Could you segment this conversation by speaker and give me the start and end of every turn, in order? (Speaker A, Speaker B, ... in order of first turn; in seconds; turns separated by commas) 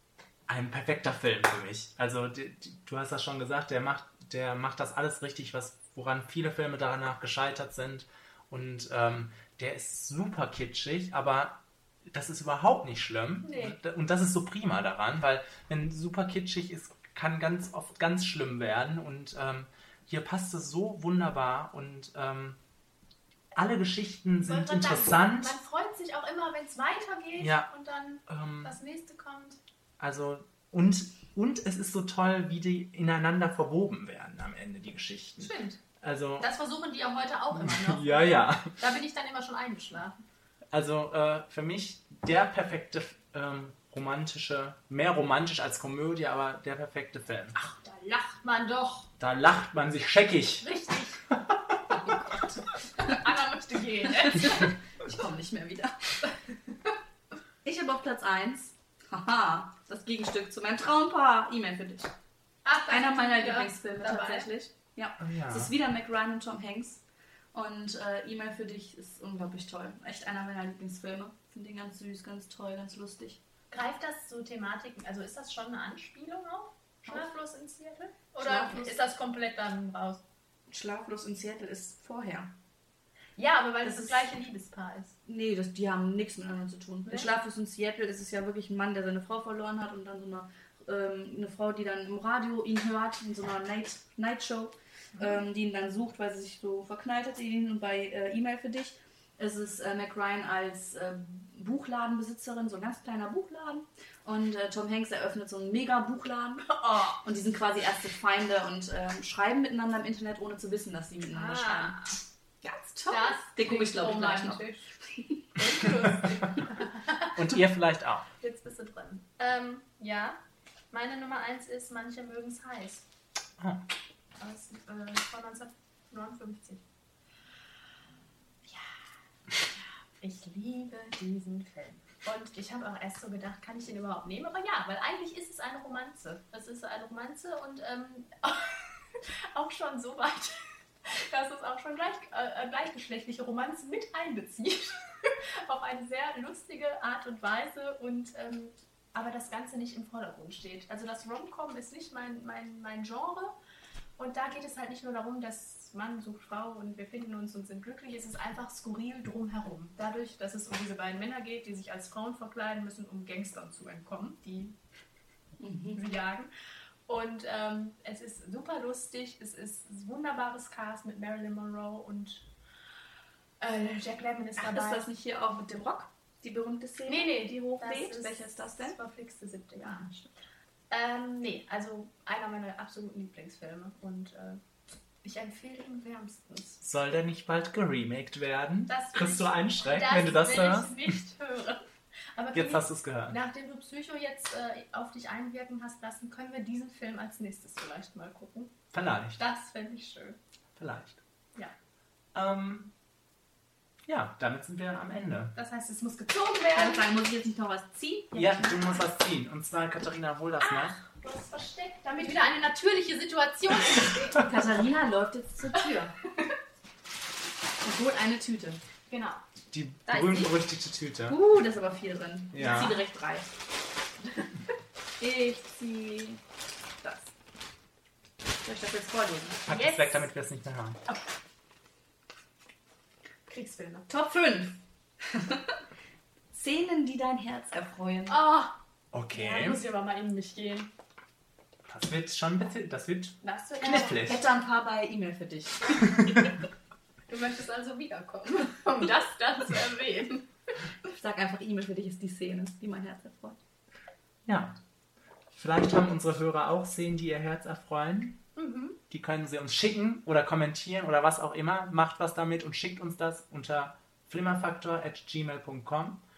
Speaker A: 0.5-11.6, Speaker A: 12.1-22.6, Speaker B: 13.4-13.8, Speaker A: 23.5-25.6, Speaker B: 24.4-29.6, Speaker A: 27.4-27.7, Speaker A: 28.3-28.8, Speaker A: 30.0-36.5, Speaker B: 35.4-35.8, Speaker B: 36.4-40.1, Speaker A: 37.6-38.8, Speaker A: 40.7-47.5, Speaker B: 47.5-49.1, Speaker A: 49.2-50.7, Speaker B: 50.6-51.2, Speaker A: 51.3-51.8, Speaker B: 53.0-54.7, Speaker C: 54.2-56.2, Speaker C: 57.6-62.1, Speaker B: 62.6-64.5, Speaker C: 62.9-73.4, Speaker A: 65.2-65.7, Speaker B: 73.7-80.2, Speaker C: 78.4-79.0, Speaker C: 80.7-82.5, Speaker B: 83.4-85.2, Speaker C: 83.8-84.3, Speaker C: 85.2-112.1, Speaker B: 106.6-107.2, Speaker B: 111.3-112.2, Speaker C: 112.6-115.4, Speaker B: 113.1-114.9, Speaker B: 115.5-117.4, Speaker A: 117.3-118.3, Speaker B: 118.4-120.4, Speaker B: 120.9-123.0, Speaker B: 124.4-126.8, Speaker B: 128.7-128.9, Speaker B: 130.2-153.5, Speaker B: 154.2-164.7, Speaker C: 165.6-166.0, Speaker B: 165.9-166.5, Speaker B: 167.1-172.5, Speaker B: 173.6-175.1, Speaker C: 174.6-179.0, Speaker B: 177.1-180.1, Speaker C: 179.8-180.3, Speaker B: 180.9-184.6, Speaker B: 185.2-186.8, Speaker A: 186.8-191.0, Speaker B: 188.9-198.7, Speaker A: 192.5-193.4, Speaker A: 198.9-199.4, Speaker B: 199.4-200.4, Speaker A: 200.8-201.2, Speaker A: 202.3-202.9, Speaker A: 204.1-205.6, Speaker B: 205.5-207.1, Speaker C: 206.7-208.7, Speaker A: 208.3-211.0, Speaker B: 211.1-214.5, Speaker C: 214.4-216.1, Speaker B: 215.7-216.5, Speaker C: 217.8-218.8, Speaker B: 219.1-219.4, Speaker A: 219.7-221.4, Speaker B: 220.1-220.5, Speaker C: 221.3-223.5, Speaker A: 222.5-223.0, Speaker C: 225.2-226.4, Speaker C: 227.0-227.3, Speaker C: 228.6-229.6, Speaker A: 229.7-231.0, Speaker B: 229.7-230.2, Speaker B: 233.5-234.1, Speaker C: 234.1-235.8, Speaker C: 236.5-238.4, Speaker B: 238.3-238.8, Speaker A: 239.1-239.8, Speaker B: 239.3-240.9, Speaker A: 241.9-244.4, Speaker C: 243.4-246.0, Speaker B: 247.3-250.5, Speaker C: 251.1-253.6, Speaker A: 254.4-254.8, Speaker A: 255.5-258.4, Speaker B: 258.6-259.0, Speaker A: 259.1-266.2